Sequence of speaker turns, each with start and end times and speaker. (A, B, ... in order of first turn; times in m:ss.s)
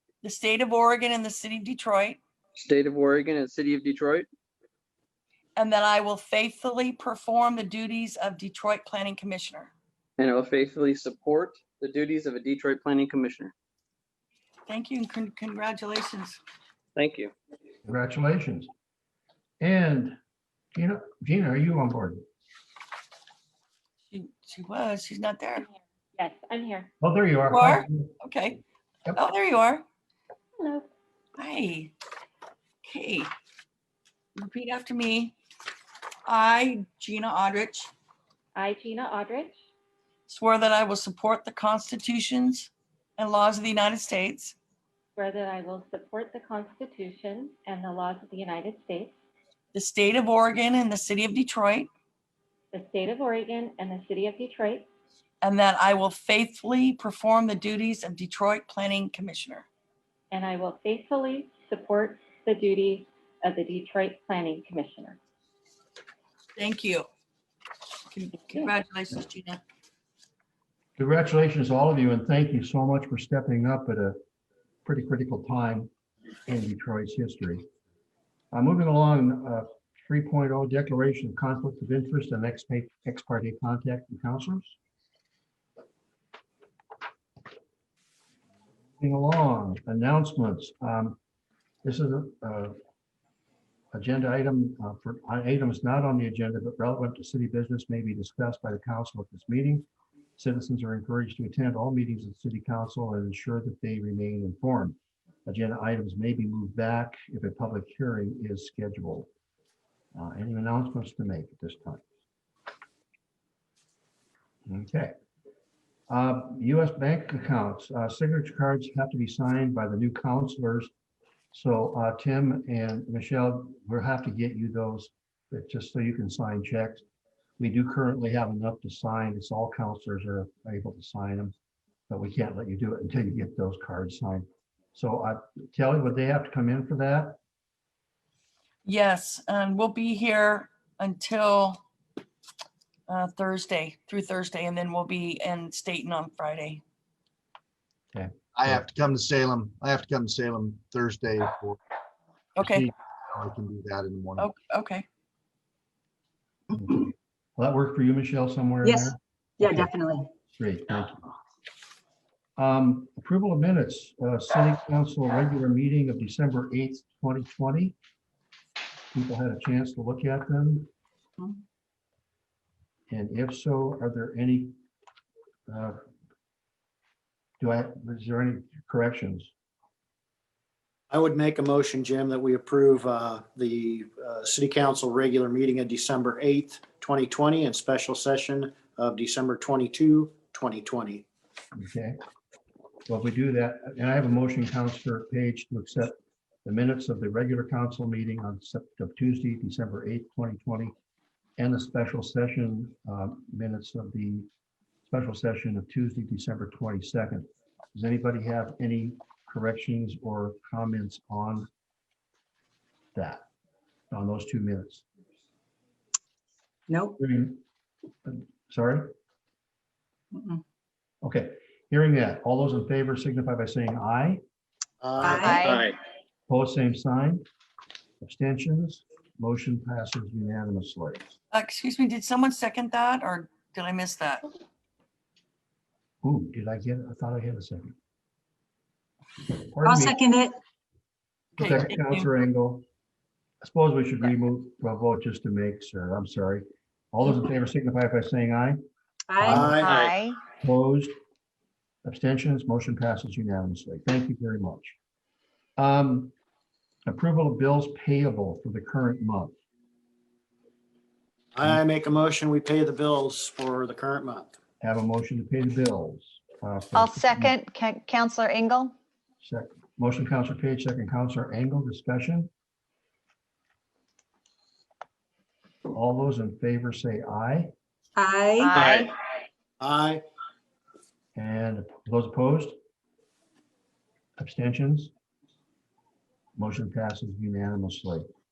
0:00.2-0:02.2 A
0:02.6-0:04.3 B
0:05.6-0:09.7 A
0:10.2-0:13.5 B
0:14.7-0:16.4 A
0:17.0-0:17.3 B
0:17.8-0:18.7 C
0:19.6-0:20.2 C
0:20.7-0:22.2 C
0:24.1-0:25.6 A
0:26.2-0:26.9 D
0:27.0-0:28.2 C
0:27.5-0:28.6 A
0:29.2-0:29.8 A
0:30.6-0:30.9 D
0:31.4-0:31.9 A
0:32.8-0:33.3 A
0:34.4-0:35.3 A
0:36.2-0:37.9 A
0:38.5-0:39.6 D
0:40.3-0:44.6 A
0:45.2-0:49.1 D
0:49.7-0:51.9 A
0:52.7-0:54.9 D
0:55.4-0:59.7 A
1:00.3-1:05.2 D
1:06.6-1:07.1 A
1:08.1-1:09.6 A
1:11.0-1:14.2 C
1:14.8-1:15.9 C
1:16.5-1:17.6 C
1:18.5-1:24.8 C
1:29.0-1:31.2 C
1:31.8-1:32.7 C
1:33.9-1:39.8 C
1:40.4-1:49.3 C
1:50.1-1:52.0 C
1:54.6-1:55.1 C
1:56.1-2:00.9 C
2:01.5-2:07.0 C
2:07.6-2:11.5 C
2:12.1-2:17.4 C
2:18.8-2:21.8 A
2:23.1-2:26.8 A
2:28.1-2:28.8 C
2:28.5-2:31.8 E
2:32.6-2:32.9 A
2:32.6-2:34.5 E
2:34.4-2:35.0 A
2:36.7-2:39.9 C
2:38.8-2:40.3 F
2:40.5-2:41.2 C
2:42.6-2:47.9 C
2:49.1-2:50.9 C
2:53.1-2:54.7 C
2:55.7-2:56.0 C
2:57.6-2:59.5 C
3:01.1-3:11.2 G
3:11.7-3:12.2 C
3:13.1-3:16.1 C
3:16.6-3:20.9 C
3:21.6-3:24.5 C
3:25.1-3:31.7 C
3:33.1-3:33.4 C
3:34.1-3:35.0 C
3:36.9-3:37.2 F
3:37.2-3:37.6 C
3:38.2-3:39.1 C
3:40.3-3:40.6 F
3:41.2-3:44.4 C
3:45.0-3:45.9 G
3:45.2-3:45.7 F
3:45.4-3:45.8 H
3:46.5-3:47.4 C
3:48.2-3:51.3 C
3:51.5-3:54.4 A
3:56.2-3:57.9 C
3:59.4-4:00.2 C
3:59.8-4:00.6 F
4:01.6-4:02.3 A
4:01.6-4:02.8 C
4:03.6-4:08.8 C
4:09.3-4:10.1 F
4:09.4-4:09.8 C
4:09.4-4:10.1 G
4:09.8-4:10.4 H
4:10.5-4:11.1 C
4:12.0-4:14.9 C
4:15.8-4:16.3 C
4:17.0-4:19.5 C
4:21.5-4:24.5 G
4:24.8-4:27.5 C
4:26.9-4:28.9 H
4:29.4-4:32.5 C
4:35.9-4:37.7 C
4:38.2-4:38.8 F
4:38.6-4:39.1 H
4:38.7-4:39.1 G
4:39.8-4:40.2 G
4:41.3-4:42.7 C
4:44.4-4:45.1 C
4:46.6-4:48.2 C